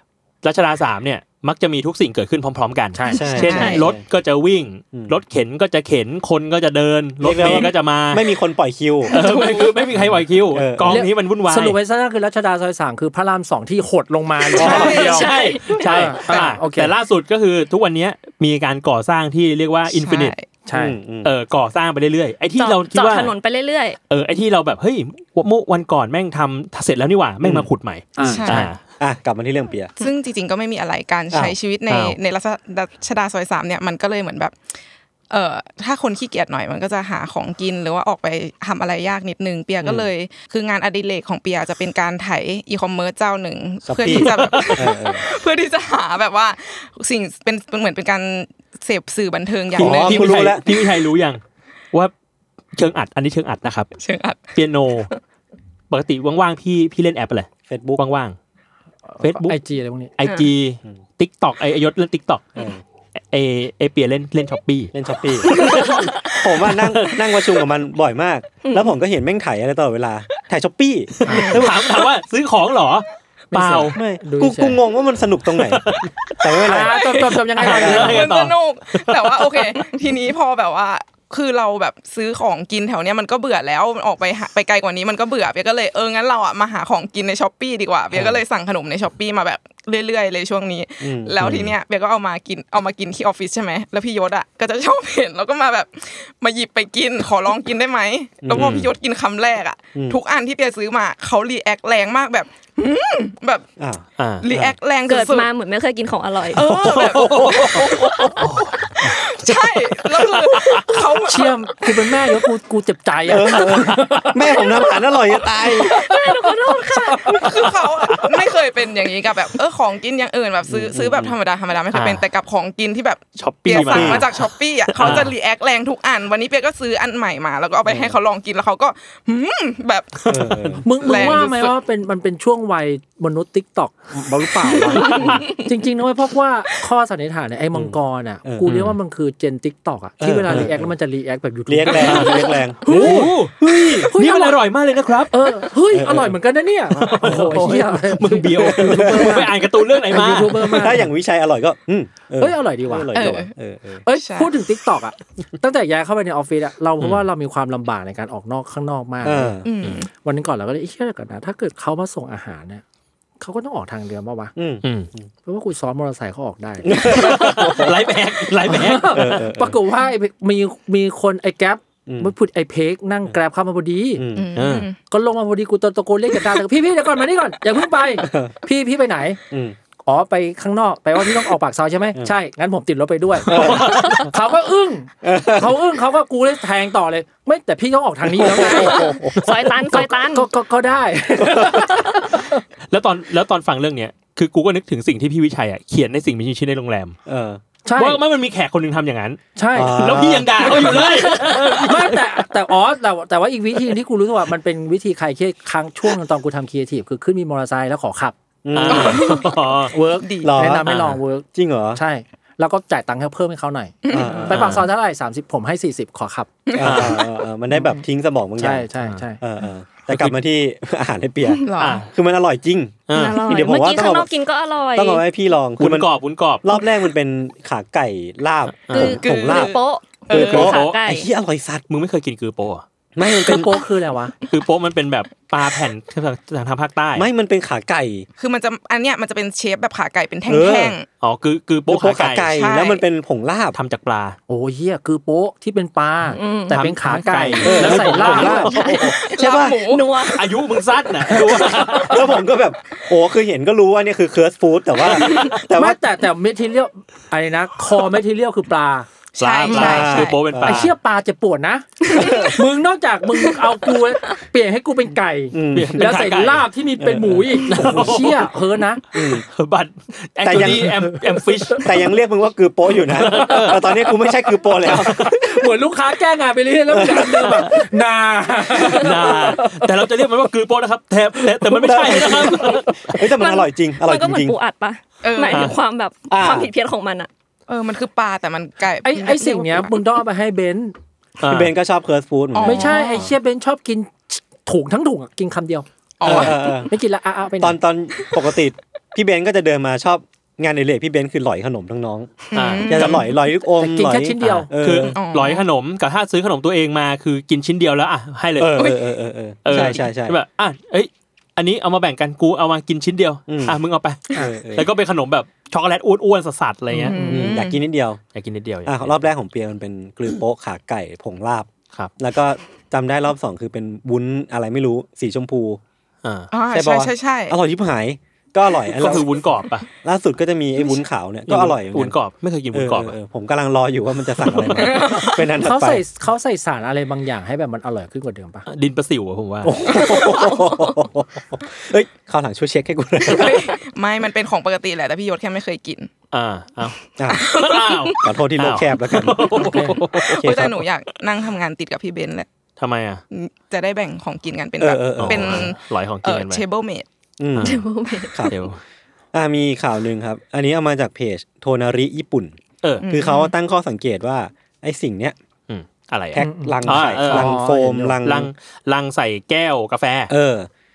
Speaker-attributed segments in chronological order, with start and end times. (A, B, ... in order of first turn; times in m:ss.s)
0:00.4-0:08.3 A
0:02.9-0:03.3 B
0:03.2-0:04.0 C
0:03.2-0:03.8 D
0:03.4-0:03.9 E
0:07.2-0:09.1 C
0:09.1-0:09.8 D
0:09.1-0:11.8 A
0:10.0-0:11.0 C
0:10.8-0:17.0 B
0:14.6-0:16.3 D
0:14.6-0:15.0 C
0:14.6-0:20.4 A
0:14.6-0:15.3 E
0:19.9-0:20.5 E
0:20.7-0:21.0 B
0:20.7-0:21.3 C
0:21.2-0:23.3 A
0:22.6-0:24.0 D
0:24.1-0:28.8 A
0:27.4-0:27.7 C
0:28.2-0:28.7 B
0:28.2-0:28.8 E
0:29.0-0:29.9 C
0:30.0-0:34.6 E
0:31.3-0:31.6 C
0:31.9-0:32.2 A
0:35.3-0:50.4 E
0:39.8-0:40.1 C
0:43.9-0:45.3 C
0:44.1-0:44.9 A
0:49.8-0:51.4 A
0:49.8-0:50.8 C
0:52.8-0:53.9 A
0:54.0-0:55.1 E
0:54.6-0:55.1 A
0:55.9-0:58.4 A
0:57.7-0:58.0 C
0:59.1-1:00.1 B
0:59.2-0:59.6 A
1:00.2-1:02.5 A
1:02.6-1:02.8 C
1:03.3-1:07.2 A
1:04.9-1:11.8 C
1:05.6-1:06.1 D
1:08.6-1:08.9 D
1:11.2-1:14.0 A
1:11.4-1:11.7 E
1:13.5-1:14.8 B
1:13.9-1:17.1 C
1:15.6-1:16.4 A
1:16.6-1:18.2 B
1:17.0-1:43.7 E
1:17.6-1:19.9 A
1:17.7-1:18.2 C
1:28.1-1:28.4 C
1:31.0-1:31.4 C
1:31.4-1:31.7 A
1:38.4-1:38.8 C
1:38.5-1:38.9 A
1:43.8-1:44.0 C
1:44.2-1:44.7 A
1:44.4-1:45.5 E
1:45.1-1:46.6 D
1:46.5-1:48.4 E
1:46.6-1:48.3 C
1:46.8-1:49.2 A
1:49.0-1:51.7 E
1:49.9-1:51.0 A
1:51.3-1:54.4 B
1:53.3-1:56.0 C
1:55.8-1:57.5 D
1:55.9-1:57.5 B
1:57.3-2:10.3 E
2:00.7-2:01.3 C
2:01.9-2:02.2 A
2:03.4-2:05.3 A
2:03.7-2:04.3 C
2:07.9-2:08.2 C
2:10.2-2:11.3 A
2:10.3-2:11.3 C
2:10.8-2:23.4 B
2:11.0-2:11.8 E
2:14.8-2:15.4 A
2:14.9-2:15.7 E
2:17.7-2:18.7 C
2:18.7-2:19.0 A
2:20.2-2:20.9 C
2:21.7-2:24.1 C
2:21.9-2:25.4 A
2:24.1-2:24.6 B
2:25.3-2:29.5 B
2:25.9-2:26.4 C
2:27.0-2:30.9 A
2:27.2-2:27.5 C
2:28.6-2:29.5 C
2:30.1-2:31.1 B
2:30.4-2:34.0 C
2:32.4-2:33.4 B
2:33.1-2:33.5 E
2:34.1-2:39.6 B
2:34.1-2:34.6 E
2:39.2-2:39.7 C
2:39.6-2:40.1 E
2:40.2-2:42.8 B
2:43.4-2:44.5 B
2:44.6-2:45.3 C
2:44.8-2:45.1 A
2:45.5-2:47.3 B
2:46.8-2:48.0 C
2:47.1-2:49.4 A
2:48.7-2:54.2 B
2:49.1-2:49.8 C
2:52.1-2:52.3 C
2:54.2-2:54.5 C
2:54.3-2:55.0 E
2:54.6-2:54.9 A
2:55.1-2:59.4 B
2:58.2-2:58.5 C
2:59.5-2:59.8 C
3:00.1-3:12.6 B
3:03.5-3:04.3 C
3:03.5-3:04.2 A
3:05.2-3:05.8 C
3:08.3-3:09.4 C
3:08.9-3:10.5 D
3:11.4-3:11.8 C
3:12.9-3:17.2 A
3:17.3-3:17.6 C
3:17.8-3:18.2 B
3:18.0-3:19.4 A
3:19.6-3:20.1 B
3:19.7-3:21.2 C
3:19.9-3:22.3 A
3:20.8-3:28.4 B
3:28.6-3:29.4 C
3:28.7-3:29.9 A
3:28.9-3:30.6 E
3:29.9-3:36.5 B
3:30.4-3:30.9 C
3:30.8-3:31.2 A
3:31.6-3:32.0 C
3:34.0-3:34.6 E
3:34.1-3:34.8 C
3:34.4-3:34.9 A
3:36.7-3:37.3 E
3:36.7-3:44.3 C
3:36.8-3:37.2 A
3:38.6-3:39.4 B
3:40.1-3:40.4 A
3:41.6-3:42.1 E
3:41.8-3:42.1 A
3:43.1-3:43.5 A
3:43.1-3:45.2 D
3:45.0-3:46.1 C
3:45.8-3:46.7 A
3:46.6-3:49.8 C
3:48.9-3:49.2 A
3:48.9-3:51.3 D
3:49.1-3:50.7 E
3:50.3-3:51.8 C
3:50.3-3:51.0 A
3:51.9-3:52.8 A
3:53.2-3:53.8 C
3:53.5-3:54.4 B
3:54.5-3:57.3 A
3:57.2-3:58.3 C
3:58.4-4:01.1 E
4:00.5-4:01.0 C
4:01.2-4:02.5 A
4:01.9-4:03.8 C
4:02.5-4:03.0 E
4:03.7-4:04.4 A
4:04.5-4:08.7 B
4:06.3-4:06.8 D
4:06.7-4:09.0 A
4:07.6-4:09.8 C
4:08.7-4:10.4 D
4:09.1-4:10.3 E
4:10.3-4:12.3 A
4:11.6-4:16.0 C
4:15.1-4:15.6 A
4:15.2-4:15.5 E
4:15.7-4:19.1 B
4:19.4-4:20.4 E
4:19.4-4:20.9 A
4:19.7-4:20.9 C
4:20.6-4:29.0 B
4:22.1-4:22.5 C
4:22.1-4:22.5 E
4:25.5-4:26.1 C
4:25.7-4:26.7 A
4:27.0-4:28.1 C
4:27.7-4:28.5 A
4:29.1-4:29.4 C
4:29.1-4:32.0 A
4:30.4-4:31.2 C
4:31.8-4:35.3 C
4:33.1-4:33.9 A
4:34.9-4:35.4 A
4:35.1-4:40.1 B
4:36.9-4:37.7 C
4:37.4-4:37.7 A
4:38.7-4:43.2 A
4:41.7-4:44.6 C
4:43.2-4:47.3 D
4:45.2-4:45.8 E
4:45.5-4:45.8 A
4:46.3-4:46.7 C
4:47.7-4:50.0 E
4:49.0-4:50.9 B
4:51.4-4:51.7 A
4:51.5-4:53.1 C
4:52.6-4:53.3 E
4:52.6-4:57.8 B
4:56.2-4:56.9 E
4:56.2-4:56.9 C
4:57.6-5:05.2 C
5:02.5-5:03.4 E
5:02.5-5:03.2 A
5:03.8-5:04.7 B
5:04.4-5:09.0 A
5:05.1-5:05.6 E
5:08.6-5:10.4 C
5:08.8-5:09.0 E
5:09.6-5:17.2 A
5:09.7-5:10.0 E
5:13.5-5:13.8 C
5:14.4-5:14.9 C
5:16.9-5:17.6 B
5:17.1-5:17.8 E
5:17.3-5:18.2 C
5:18.4-5:19.2 A
5:18.8-5:21.7 C
5:22.2-5:25.8 C
5:26.2-5:26.5 A
5:26.5-5:27.6 E
5:26.7-5:29.3 C
5:28.9-5:29.9 A
5:30.0-5:32.2 C
5:31.5-5:33.2 A
5:32.7-5:36.0 C
5:34.4-5:35.0 A
5:34.8-5:35.4 E
5:35.5-5:38.7 B
5:38.7-5:39.8 A
5:39.6-5:43.7 C
5:40.5-5:40.9 D
5:43.3-5:46.1 E
5:46.3-5:50.6 A
5:47.2-5:47.6 C
5:47.3-5:48.2 E
5:48.1-5:50.8 C
5:49.6-5:50.0 B
5:50.3-5:52.5 E
5:52.8-5:53.2 A
5:53.3-5:57.1 E
5:54.8-5:55.7 C
5:55.2-5:56.6 A
5:57.4-5:58.5 C
5:57.6-5:57.8 A
5:57.6-5:58.5 D
5:58.4-5:58.8 A
5:59.3-6:02.6 C
6:03.0-6:03.5 E
6:03.1-6:05.4 C
6:05.7-6:07.6 A
6:06.3-6:08.5 C
6:06.4-6:08.2 B
6:08.2-6:10.3 A
6:10.3-6:10.7 C